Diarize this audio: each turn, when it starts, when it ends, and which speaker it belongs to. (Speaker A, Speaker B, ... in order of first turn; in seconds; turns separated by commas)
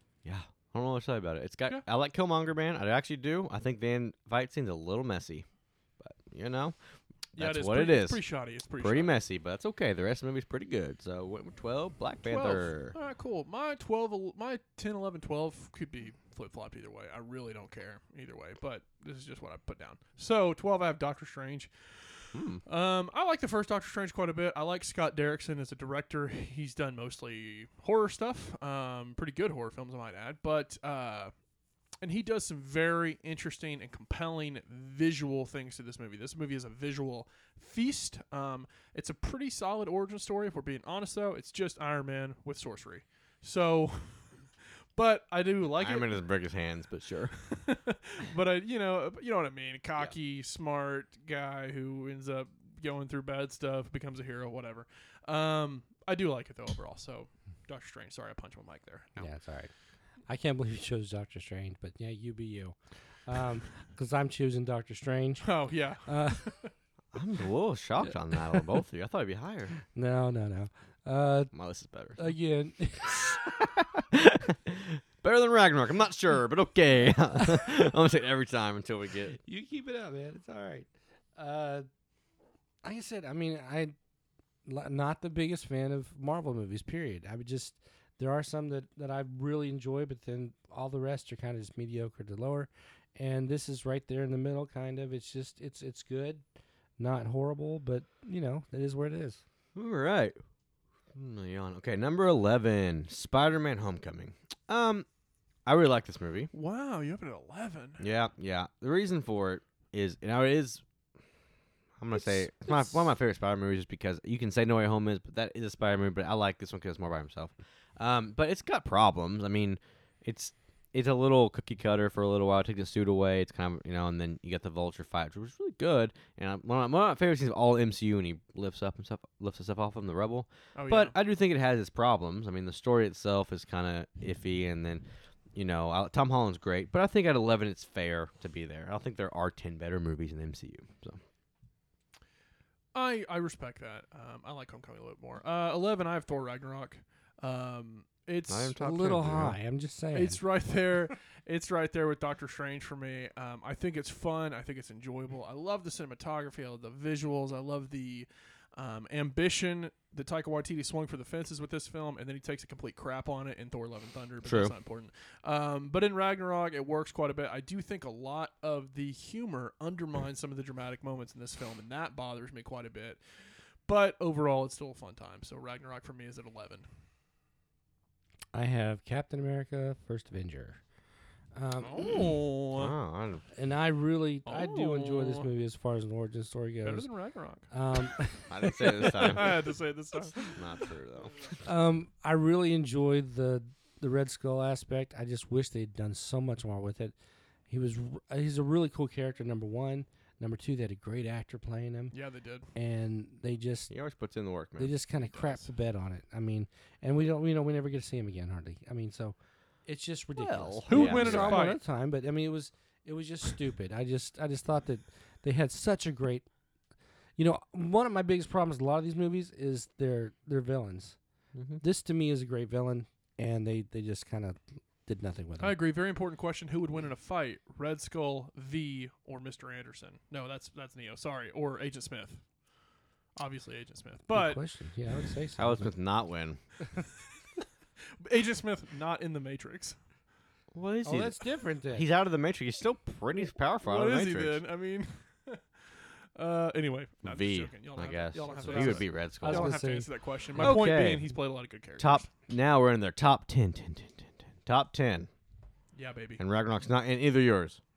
Speaker A: 0.2-5.5, Speaker A: 6.0-6.8, Speaker A: 7.4-8.2, Speaker B: 7.4-9.1, Speaker A: 8.8-12.9, Speaker B: 12.3-31.3, Speaker A: 22.3-22.6, Speaker B: 32.0-44.3, Speaker B: 45.0-46.2, Speaker A: 45.8-47.4, Speaker B: 47.4-59.2, Speaker C: 59.2-59.7, Speaker C: 60.3-66.6, Speaker B: 65.4-66.7, Speaker A: 67.1-69.8, Speaker C: 69.9-71.5, Speaker A: 71.5-72.2, Speaker C: 72.2-73.3, Speaker A: 73.3-79.4, Speaker C: 79.4-81.9, Speaker C: 82.8-83.9, Speaker C: 84.6-96.4, Speaker C: 97.0-99.4, Speaker A: 99.8-100.4, Speaker A: 101.1-105.1, Speaker A: 105.7-106.5, Speaker B: 106.5-108.0, Speaker A: 108.0-110.8, Speaker A: 112.0-141.2, Speaker B: 130.8-131.2, Speaker B: 142.9-148.8, Speaker A: 148.5-149.6, Speaker C: 148.8-150.4, Speaker B: 150.1-176.9, Speaker A: 164.4-164.7, Speaker C: 178.5-180.8, Speaker C: 181.6-182.3, Speaker B: 181.8-182.9, Speaker A: 182.8-183.4, Speaker C: 183.6-187.1, Speaker B: 184.5-185.5, Speaker B: 186.8-187.7, Speaker C: 187.7-189.3, Speaker A: 188.5-189.6, Speaker B: 188.8-190.6, Speaker A: 190.4-191.4, Speaker C: 191.6-197.1, Speaker C: 197.7-202.1, Speaker B: 202.1-202.7, Speaker C: 202.8-203.9, Speaker A: 203.9-204.9, Speaker C: 204.8-216.5, Speaker A: 210.4-211.8, Speaker B: 210.9-211.8, Speaker C: 217.4-221.2, Speaker A: 221.6-221.8, Speaker C: 221.8-225.8, Speaker B: 225.6-232.4, Speaker B: 233.4-234.6, Speaker C: 234.3-235.9, Speaker A: 235.6-236.6, Speaker B: 238.2-240.0, Speaker A: 240.7-241.4, Speaker C: 241.0-242.1, Speaker A: 241.9-244.6, Speaker B: 243.8-252.3, Speaker A: 247.2-249.8, Speaker C: 248.5-250.8, Speaker A: 250.6-251.3, Speaker A: 252.0-255.3, Speaker B: 255.9-256.4, Speaker A: 256.4-257.8